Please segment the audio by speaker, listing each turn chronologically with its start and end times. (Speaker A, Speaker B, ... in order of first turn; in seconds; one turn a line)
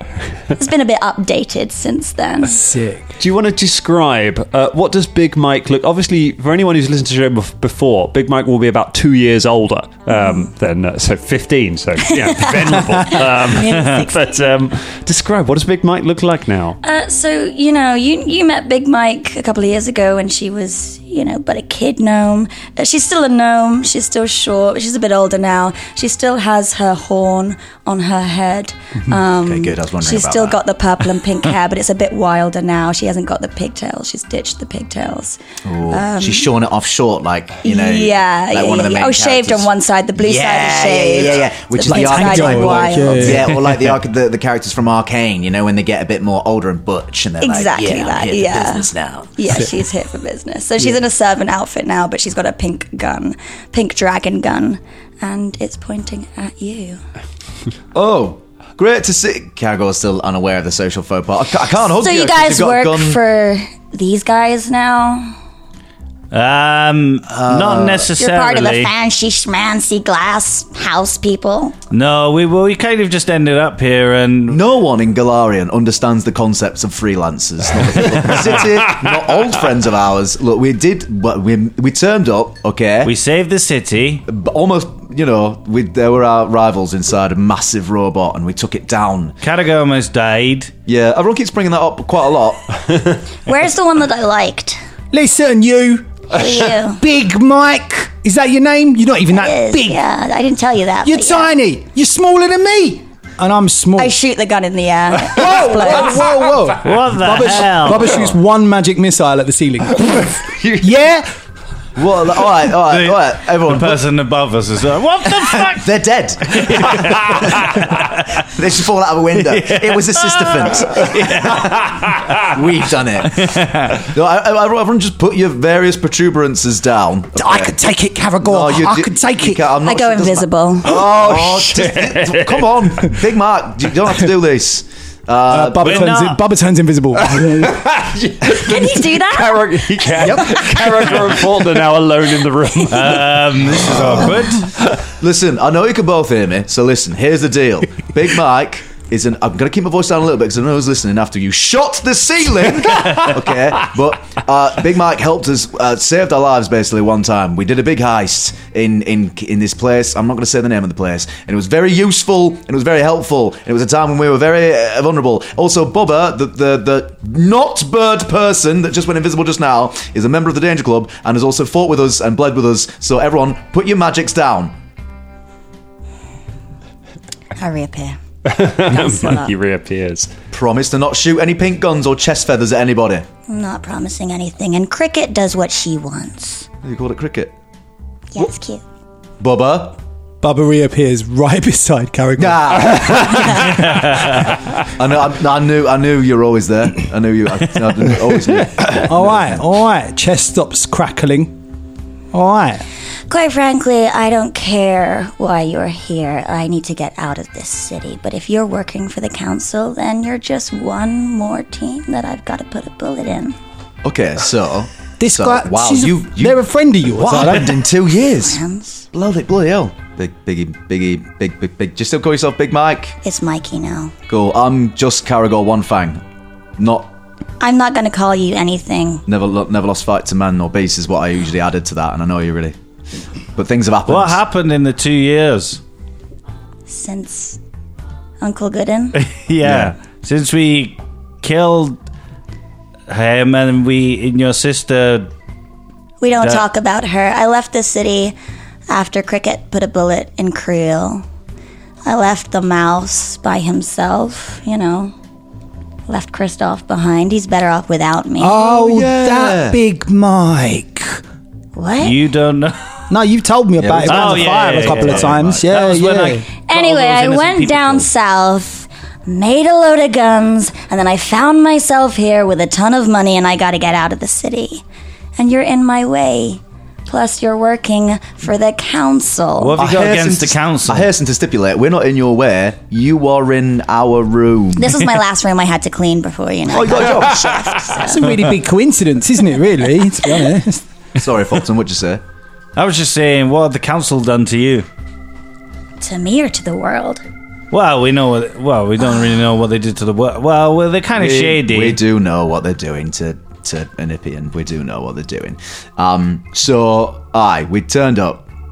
Speaker A: 0.6-2.6
Speaker B: 2.5-3.2
Speaker C: 3.2-16.8
Speaker A: 10.1-10.5
Speaker A: 13.4-14.4
Speaker A: 16.8-35.4
Speaker D: 29.4-30.6
Speaker D: 35.6-49.3
Speaker A: 35.9-36.5
Speaker A: 37.6-43.4
Speaker B: 41.9-43.7
Speaker A: 47.4-57.0
Speaker D: 57.9-63.2
Speaker A: 62.0-65.3
Speaker E: 66.3-68.9
Speaker D: 67.3-68.1
Speaker A: 68.2-71.8
Speaker E: 71.9-74.6
Speaker D: 74.5-83.1
Speaker E: 83.0-84.2
Speaker D: 84.3-89.4
Speaker E: 89.4-90.7
Speaker D: 90.9-92.8
Speaker A: 93.5-94.8
Speaker B: 95.1-100.0
Speaker A: 96.3-97.0
Speaker A: 99.3-101.5
Speaker B: 101.0-104.1
Speaker A: 104.0-106.4
Speaker B: 105.2-111.3
Speaker E: 106.8-108.3
Speaker C: 110.3-110.9
Speaker D: 112.0-114.0
Speaker E: 112.7-115.9
Speaker D: 115.5-117.8
Speaker E: 116.5-118.4
Speaker C: 117.1-117.8
Speaker D: 118.3-123.5
Speaker E: 119.4-121.9
Speaker C: 121.8-122.4
Speaker E: 123.3-124.0
Speaker D: 124.1-127.8
Speaker B: 127.4-129.6
Speaker D: 128.4-136.3
Speaker A: 129.8-131.0
Speaker C: 131.2-132.8
Speaker B: 135.5-137.8
Speaker E: 135.8-136.4
Speaker C: 137.3-143.5
Speaker A: 138.5-140.3
Speaker B: 140.2-140.8
Speaker E: 142.9-144.7
Speaker D: 143.8-144.4
Speaker D: 145.1-174.7
Speaker A: 177.6-178.2
Speaker C: 178.4-180.3
Speaker A: 178.9-179.5
Speaker D: 180.5-183.2
Speaker A: 183.5-186.7
Speaker D: 186.8-187.5
Speaker A: 188.3-188.8
Speaker D: 189.4-190.0
Speaker B: 190.4-193.8
Speaker D: 192.4-199.6
Speaker E: 193.7-194.5
Speaker B: 199.1-201.6
Speaker B: 202.3-202.8
Speaker A: 203.3-213.6
Speaker D: 214.0-218.6
Speaker B: 215.2-217.8
Speaker A: 218.4-219.1
Speaker D: 219.1-223.2
Speaker A: 223.2-224.1
Speaker D: 224.3-226.2
Speaker D: 226.8-227.1
Speaker A: 227.6-229.2
Speaker D: 229.3-232.8
Speaker D: 233.6-234.4
Speaker E: 234.1-235.8
Speaker A: 236.9-237.6
Speaker A: 238.4-239.2
Speaker E: 239.1-242.0
Speaker D: 239.6-239.9
Speaker E: 243.1-245.3
Speaker A: 246.2-248.4
Speaker E: 246.4-246.6
Speaker A: 248.9-251.2
Speaker A: 252.1-255.1
Speaker A: 256.1-258.6
Speaker B: 258.4-261.2
Speaker D: 258.6-259.8
Speaker A: 261.8-262.2
Speaker E: 262.0-262.9
Speaker B: 263.1-266.5
Speaker D: 263.8-266.0
Speaker E: 264.1-268.1
Speaker A: 266.6-274.8
Speaker A: 275.4-279.9
Speaker E: 279.6-281.1
Speaker D: 279.8-284.9
Speaker A: 284.8-288.4
Speaker D: 286.7-288.2
Speaker B: 288.1-290.9
Speaker D: 291.1-292.2
Speaker E: 292.8-294.9
Speaker A: 296.0-297.2
Speaker E: 297.7-302.0
Speaker D: 301.1-308.4